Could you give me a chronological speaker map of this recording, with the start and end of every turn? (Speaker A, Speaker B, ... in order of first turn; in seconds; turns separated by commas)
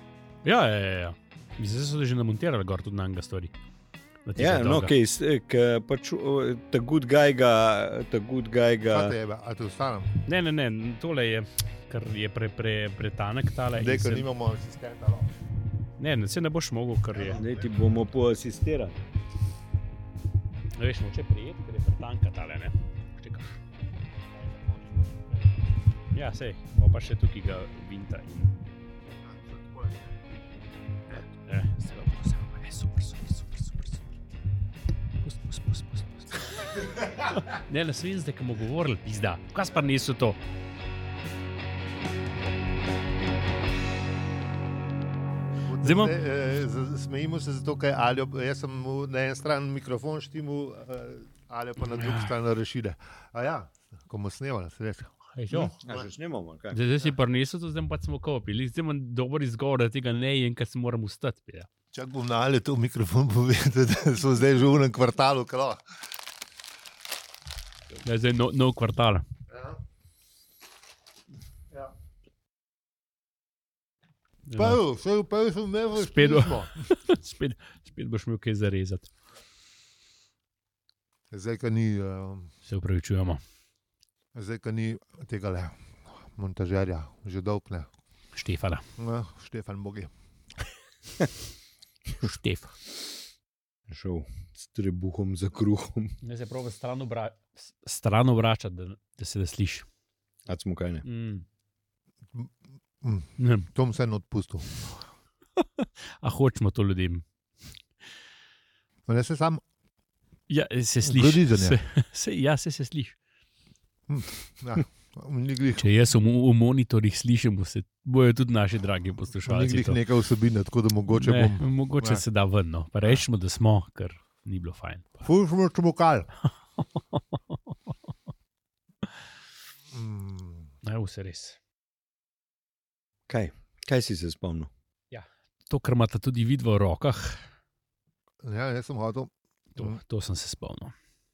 Speaker A: 0.4-3.5, Speaker A: 4.3-5.0, Speaker B: 4.4-9.2, Speaker C: 8.9-10.1, Speaker A: 10.2-14.3, Speaker C: 13.8-15.3, Speaker A: 16.0-17.4, Speaker B: 17.3-19.0, Speaker A: 20.8-23.5, Speaker A: 26.1-28.5, Speaker C: 29.5-30.0, Speaker A: 31.4-34.0, Speaker A: 35.2-40.4, Speaker C: 45.7-56.0, Speaker A: 45.8-46.2, Speaker A: 51.9-52.3, Speaker A: 55.4-55.8, Speaker B: 55.8-56.8, Speaker A: 56.7-61.7, Speaker C: 61.9-65.8, Speaker A: 68.0-69.2, Speaker A: 74.5-74.8, Speaker C: 74.6-76.8, Speaker A: 76.0-79.1, Speaker C: 81.3-82.5, Speaker A: 82.7-83.4, Speaker C: 84.3-87.9, Speaker A: 88.4-88.8, Speaker C: 89.0-90.1, Speaker A: 92.2-92.8, Speaker B: 93.9-96.1, Speaker A: 96.2-99.9, Speaker B: 100.5-101.0, Speaker A: 101.0-101.5, Speaker C: 103.0-105.0, Speaker A: 103.4-103.7, Speaker A: 105.6-107.2, Speaker C: 109.1-109.6, Speaker A: 110.5-113.2, Speaker C: 111.0-111.8, Speaker C: 114.1-115.9, Speaker A: 115.8-120.0, Speaker C: 119.5-122.2, Speaker A: 121.1-125.2, Speaker C: 125.2-126.3, Speaker A: 126.8-127.2, Speaker C: 129.9-130.7, Speaker A: 130.8-131.6, Speaker B: 133.3-134.7, Speaker A: 135.1-137.4, Speaker C: 138.4-140.0, Speaker A: 139.8-140.9